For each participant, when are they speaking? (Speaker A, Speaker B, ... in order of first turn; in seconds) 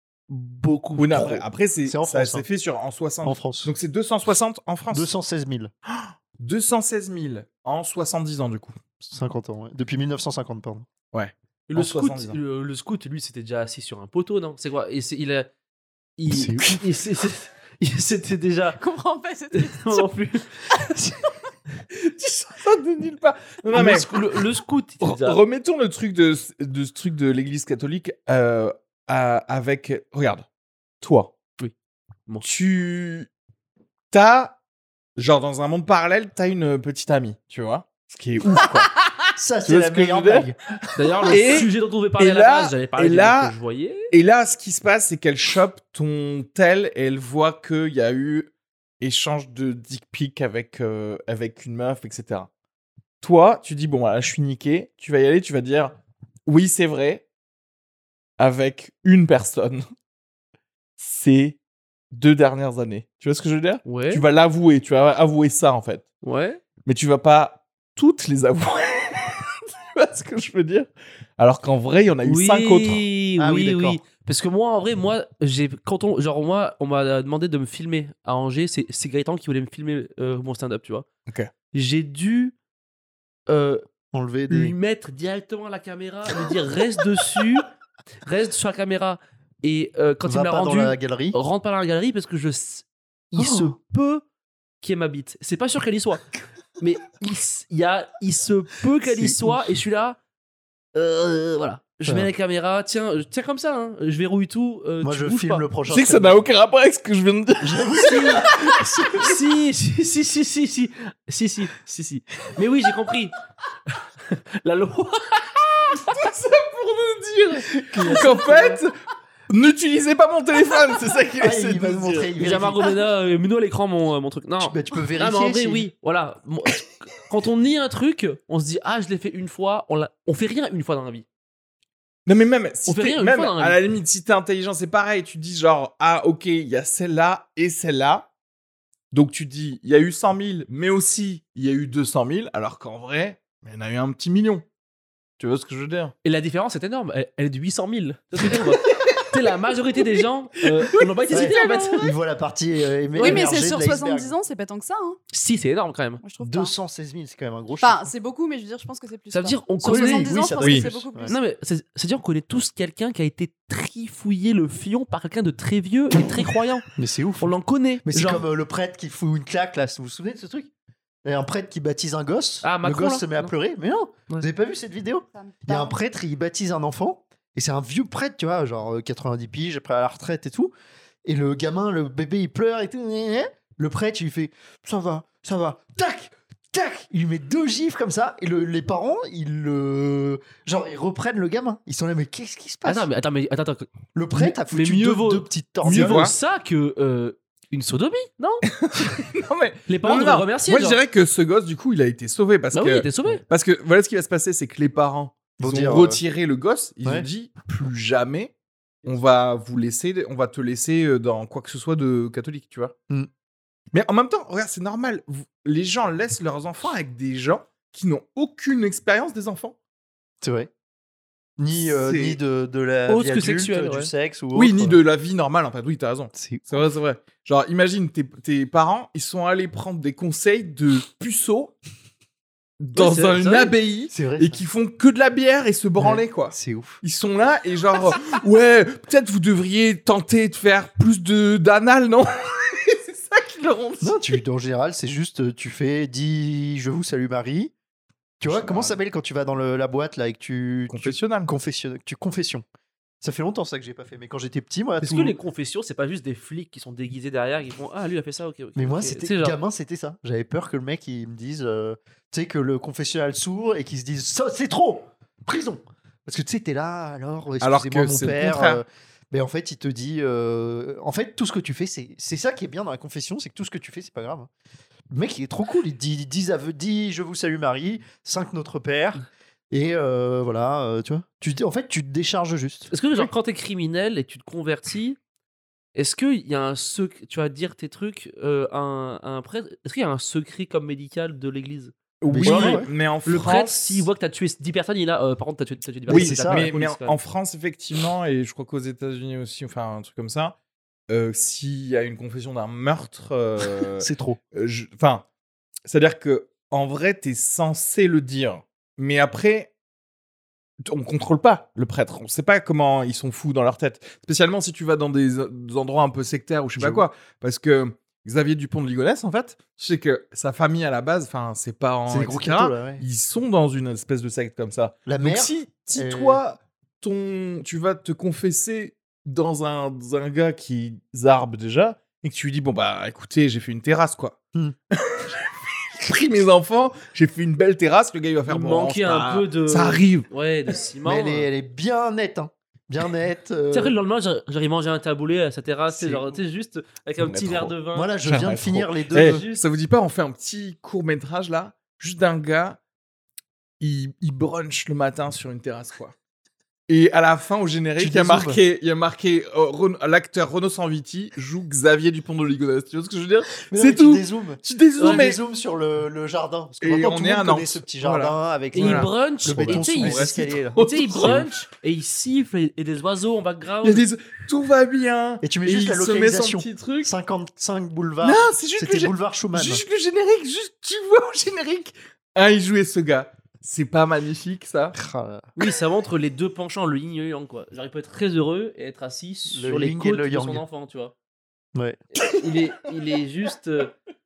Speaker A: 0.3-1.4, 11.7-15.5, 16.2-18.8, 19.5-20.6, 23.7-25.4, 41.0-44.1, 63.9-64.2, 66.2-66.6, 72.2-81.1, 81.7-82.6, 83.5-83.8, 84.5-87.7, 88.2-94.2, 94.8-96.3, 96.8-100.2, 101.0-105.7, 108.0-113.3, 114.2-116.1, 117.9-118.5, 122.4-131.3, 132.9-133.8, 146.2-152.1, 153.2-153.5, 155.3-156.2, 159.3-160.4, 161.2-166.9, 167.4-168.4, 172.6-173.5, 192.8-198.7, 199.9-201.0, 202.7-203.4, 223.1-224.1, 232.9-233.7, 255.0-259.6, 282.9-285.2, 285.9-297.2, 338.5-341.5, 343.7-348.1, 349.1-349.6, 365.0-365.2, 368.7-370.2, 370.8-374.1, 385.6-391.1, 392.1-393.9
Speaker B: 1.0-5.1, 5.9-8.8, 11.1-12.4, 21.9-24.1, 25.0-30.4, 31.0-31.3, 32.4-33.3, 34.1-34.6, 35.2-40.5, 41.3-43.5, 44.1-52.5, 53.2-56.0, 56.5-57.2, 58.4-59.8, 61.0-61.6, 62.1-66.1, 66.9-73.0, 105.9-108.8, 116.0-118.9, 119.5-122.3, 132.3-138.3, 139.1-144.7, 145.4-146.1, 148.9-149.3, 160.6-160.9, 195.8-196.3, 198.7-208.5, 209.0-212.9, 213.9-219.8, 221.7-222.4, 224.5-231.8, 232.8-244.4, 248.5-249.0, 250.9-251.5, 267.6-268.8, 292.2-294.1, 296.1-300.6, 301.1-305.2, 305.9-309.7, 310.9-334.4, 334.9-340.3, 347.2-347.7, 348.2-352.8, 353.8-356.1, 356.9-365.4, 366.8-371.5, 373.8-377.1, 378.2-384.9
Speaker C: 1.9-2.5, 3.2-3.7, 4.9-5.7, 9.0-10.9, 16.3-16.8, 39.4-40.6, 73.4-74.0, 84.1-84.7, 90.2-91.4, 93.3-93.8, 99.1-99.7, 105.0-106.4, 107.6-109.4, 117.8-118.8, 121.4-122.8, 124.6-125.9, 151.3-154.3, 156.4-158.1, 159.8-161.3, 166.9-170.7, 171.2-180.7, 181.2-193.1, 194.1-196.3, 205.6-206.2, 220.4-220.7, 221.6-225.0, 226.3-226.7, 234.1-234.6, 236.0-237.0, 244.0-247.7, 248.4-252.7, 253.2-255.4, 258.8-274.5, 275.1-283.3, 292.3-292.9, 296.1-296.7, 304.0-304.4, 316.8-317.0, 322.1-323.0, 325.1-326.4, 341.0-343.9, 345.9-346.2, 347.9-349.4, 358.0-358.6, 363.7-371.5, 375.4-379.8, 384.9-385.5, 389.5-390.6, 391.8-392.0
Speaker D: 18.8-20.1, 151.5-152.1, 153.2-155.2, 156.2-156.7, 157.8-161.4, 175.3-176.0